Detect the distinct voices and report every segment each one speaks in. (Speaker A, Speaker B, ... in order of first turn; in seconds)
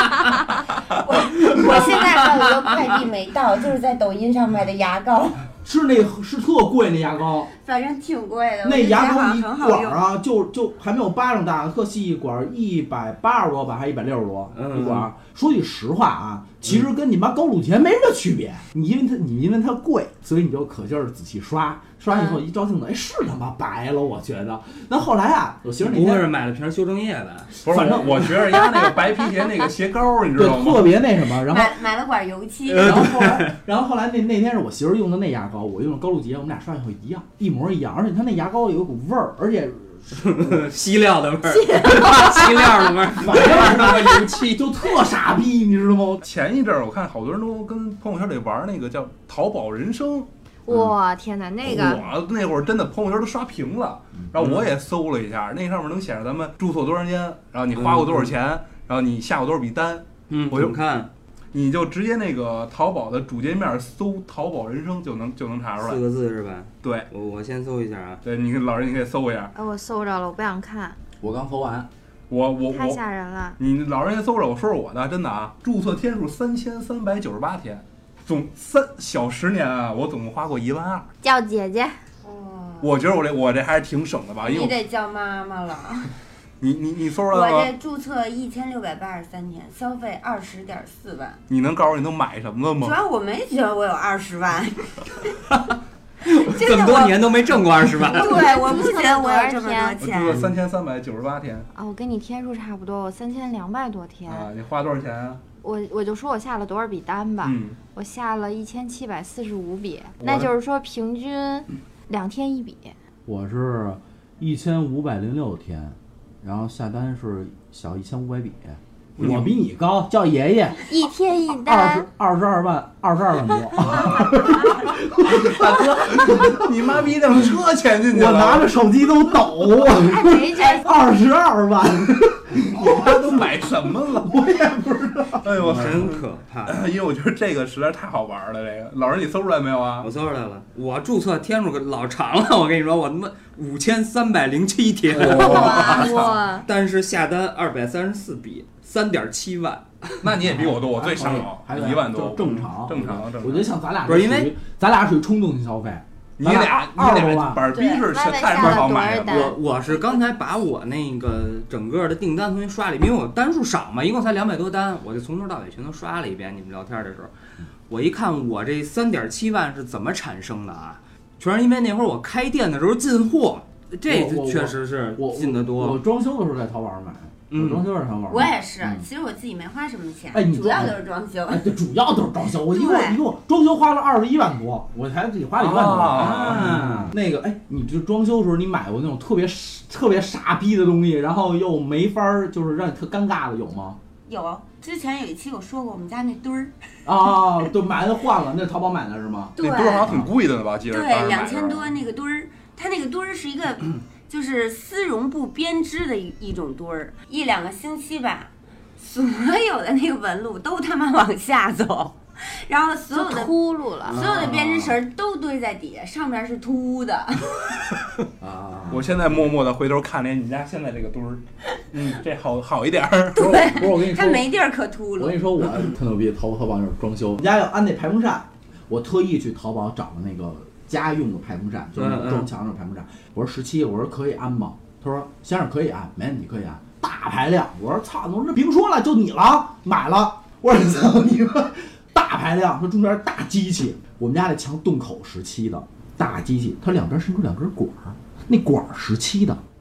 Speaker A: 1.0-5.4, 7.6-10.0, 31.4-33.1, 82.2-82.9, 84.4-86.1, 87.3-91.4, 92.8-95.2, 96.3-97.3, 97.8-100.4, 178.3-181.7, 182.6-183.2, 194.3-196.7, 199.6-200.1, 200.9-213.5, 214.1-217.8, 223.3-225.5
Speaker B: 1.6-2.1, 14.6-15.1, 25.8-27.6, 32.7-33.6, 40.1-44.0, 54.4-54.7, 57.8-58.3, 60.3-61.1, 65.8-68.2, 96.3-98.4, 135.6-136.8, 140.0-150.3, 154.1-154.5, 159.2-167.3, 167.9-176.0, 177.5-177.9, 186.1-187.1, 214.1-214.9, 232.0-232.5
Speaker C: 5.6-7.5, 8.6-26.3, 27.7-28.5, 30.4-31.7, 32.8-40.7, 43.2-46.2, 71.2-71.9, 113.3-120.8, 121.6-127.0, 128.0-133.5, 134.1-135.7, 150.4-157.7, 174.1-179.1, 180.3-194.0, 197.1-200.3, 218.4-219.3, 223.4-224.5, 225.2-249.6
Speaker D: 27.6-30.9, 43.2-44.6, 46.2-50.3, 51.6-60.8, 61.5-66.0, 66.8-67.1, 68.2-69.5, 72.3-73.0, 73.6-81.1, 82.8-84.8, 86.6-87.7, 91.5-93.0, 100.0-101.7, 104.3-105.4, 107.4-107.8, 110.2-110.5, 119.2-119.6, 125.2-128.7, 132.6-134.4, 135.4-140.1, 145.2-146.4, 150.2-153.7, 156.4-159.5, 185.6-186.8, 199.6-201.9, 218.9-223.6
Speaker E: 41.5-43.0, 50.7-52.1, 69.5-71.0, 72.7-73.6, 81.2-82.0, 98.0-100.0, 101.7-104.5, 105.6-113.0, 120.9-122.1, 129.9-130.9, 145.2-146.7, 157.7-159.6, 213.1-214.2